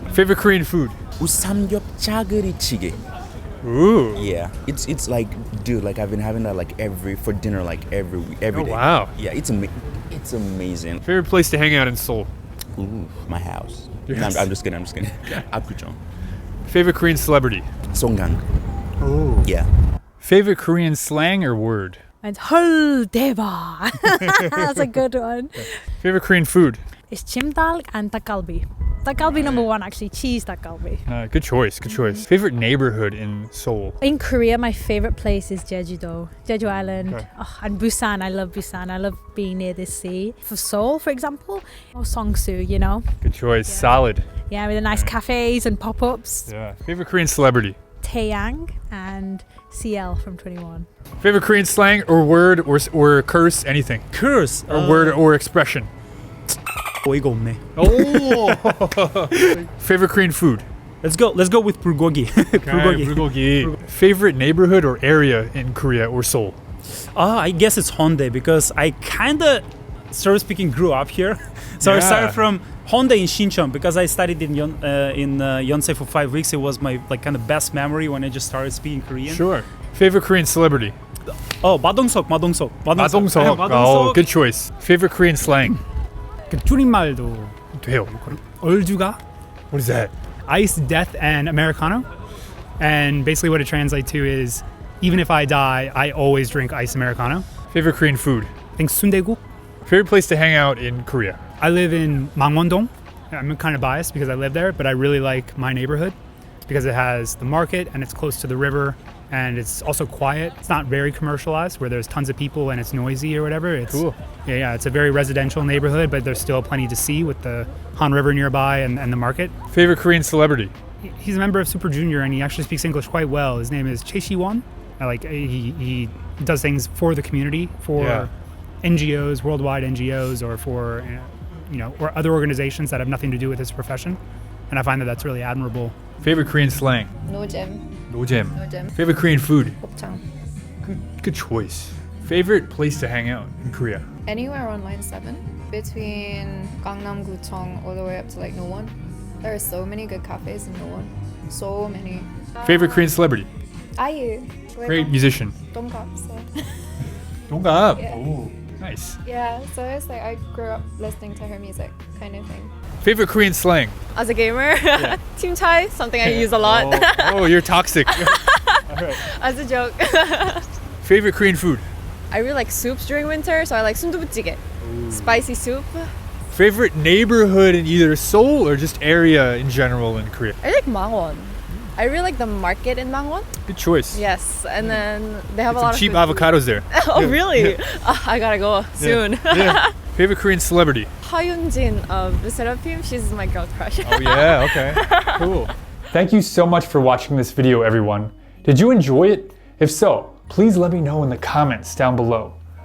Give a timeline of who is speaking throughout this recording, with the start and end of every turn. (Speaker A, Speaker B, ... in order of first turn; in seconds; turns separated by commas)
Speaker A: 0.1-1.0, Speaker B: 1.2-3.0, Speaker A: 3.6-4.2, Speaker B: 4.1-11.0, Speaker A: 8.5-9.1, Speaker A: 11.0-12.3, Speaker B: 12.8-16.0, Speaker A: 14.1-14.5, Speaker A: 16.7-17.7, Speaker B: 17.9-18.4, Speaker A: 19.0-19.5, Speaker B: 19.4-19.7, Speaker A: 20.2-22.0, Speaker C: 22.2-25.8, Speaker A: 26.0-26.8, Speaker C: 27.1-31.1, Speaker A: 29.2-29.7, Speaker A: 31.1-34.0, Speaker C: 31.9-32.3, Speaker C: 34.0-43.1, Speaker A: 36.7-37.3, Speaker A: 43.2-44.2, Speaker C: 43.6-46.5, Speaker A: 46.5-47.8, Speaker C: 48.0-50.9, Speaker A: 51.2-54.0, Speaker D: 54.1-55.2, Speaker A: 54.7-55.9, Speaker D: 57.0-58.7, Speaker A: 57.8-60.7, Speaker D: 61.0-63.8, Speaker A: 62.6-66.6, Speaker D: 67.1-79.5, Speaker A: 71.8-72.5, Speaker A: 79.3-81.0, Speaker D: 81.6-84.3, Speaker A: 83.0-85.8, Speaker E: 86.5-89.2, Speaker A: 87.8-88.1, Speaker A: 89.7-90.1, Speaker E: 90.5-92.1, Speaker E: 92.8-97.5, Speaker A: 97.7-98.5, Speaker E: 98.8-99.4, Speaker A: 99.9-101.4, Speaker E: 101.6-106.2, Speaker E: 106.7-119.5, Speaker A: 113.9-114.2, Speaker A: 119.7-120.7, Speaker E: 121.0-128.3, Speaker A: 128.0-128.3, Speaker E: 128.8-134.2, Speaker E: 134.7-135.9, Speaker A: 136.2-137.1, Speaker F: 137.2-137.9, Speaker A: 138.1-139.8, Speaker F: 138.5-139.0, Speaker F: 139.8-140.2, Speaker A: 140.8-144.1, Speaker F: 144.3-152.7, Speaker A: 152.6-153.5, Speaker F: 154.0-156.8, Speaker A: 154.8-155.6, Speaker A: 157.5-159.2, Speaker F: 157.9-158.2, Speaker F: 159.2-162.7, Speaker A: 163.0-163.9, Speaker G: 164.2-170.7, Speaker A: 164.9-165.2, Speaker A: 166.2-168.4, Speaker A: 168.9-169.2, Speaker A: 171.0-171.9, Speaker G: 172.3-176.1, Speaker A: 174.8-175.5, Speaker A: 176.5-180.6, Speaker G: 180.6-183.5, Speaker A: 183.7-184.2, Speaker G: 184.1-189.9, Speaker A: 185.7-187.8, Speaker A: 189.0-191.1, Speaker G: 191.2-195.6, Speaker A: 194.1-202.6